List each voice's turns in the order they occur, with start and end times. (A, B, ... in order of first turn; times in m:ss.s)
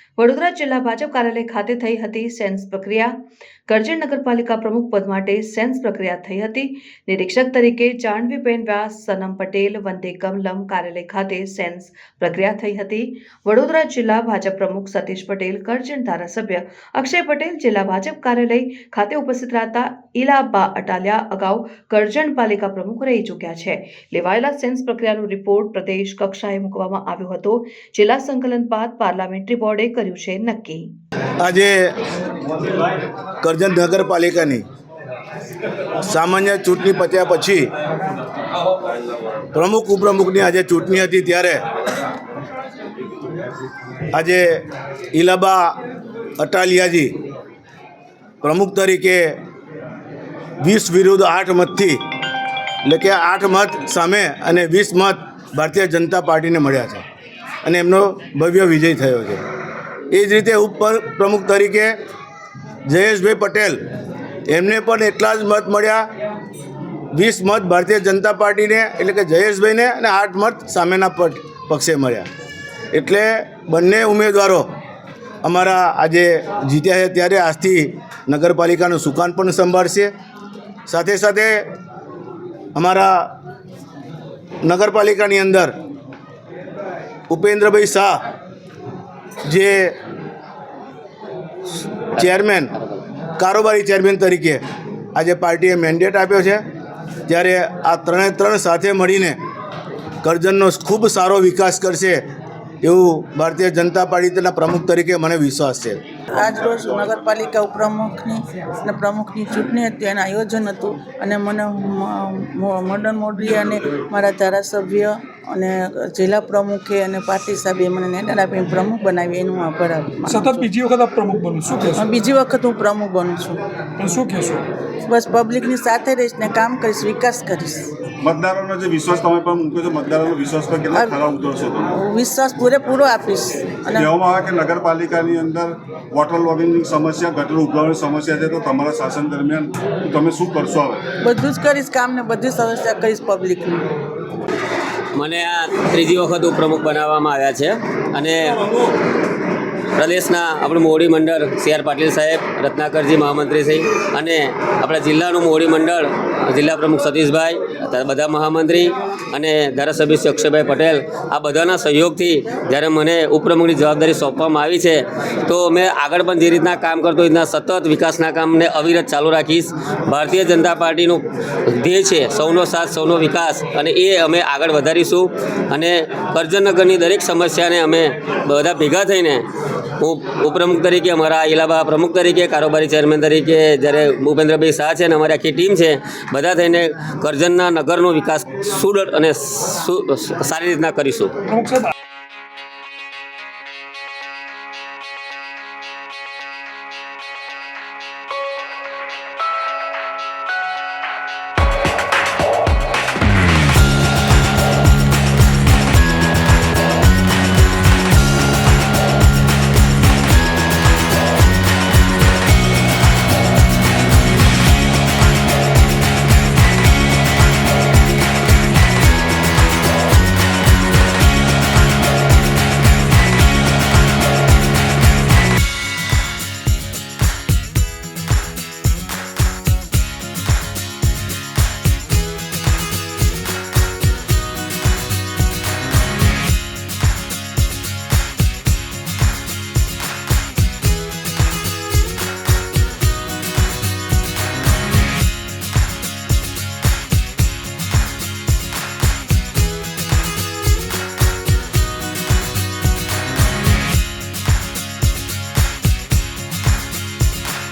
0:00.2-0:03.2 A
0:03.7-0:30.9 A
0:31.4-0:31.9 B
0:33.4-0:34.6 B
0:36.0-0:37.7 B
0:39.5-0:41.6 B
0:44.1-0:45.7 B
0:46.4-0:47.1 B
0:48.4-0:49.4 B
0:50.6-0:52.0 B
0:52.8-0:57.0 B
0:57.6-0:59.4 B
1:00.1-1:02.0 B
1:02.8-1:03.8 B
1:04.5-1:06.0 B
1:07.1-1:12.3 B
1:12.9-1:14.6 B
1:15.4-1:20.1 B
1:20.9-1:21.6 B
1:22.7-1:23.3 B
1:24.6-1:25.7 B
1:27.3-1:28.2 B
1:29.4-1:30.0 B
1:32.2-1:32.7 B
1:33.4-1:34.6 B
1:35.1-1:36.6 B
1:37.3-1:39.4 B
1:40.2-1:42.2 B
1:42.8-1:46.0 B
1:46.3-2:00.7 C
2:00.2-2:02.1 D
2:02.0-2:03.6 C
2:04.0-2:04.6 D
2:05.0-2:07.9 C
2:08.2-2:12.0 E
2:10.9-2:11.2 C
2:11.9-2:14.1 C
2:13.9-2:21.0 E
2:21.2-2:23.9 C
2:25.1-2:28.8 F
2:30.0-2:59.4 F
3:00.0-3:11.3 F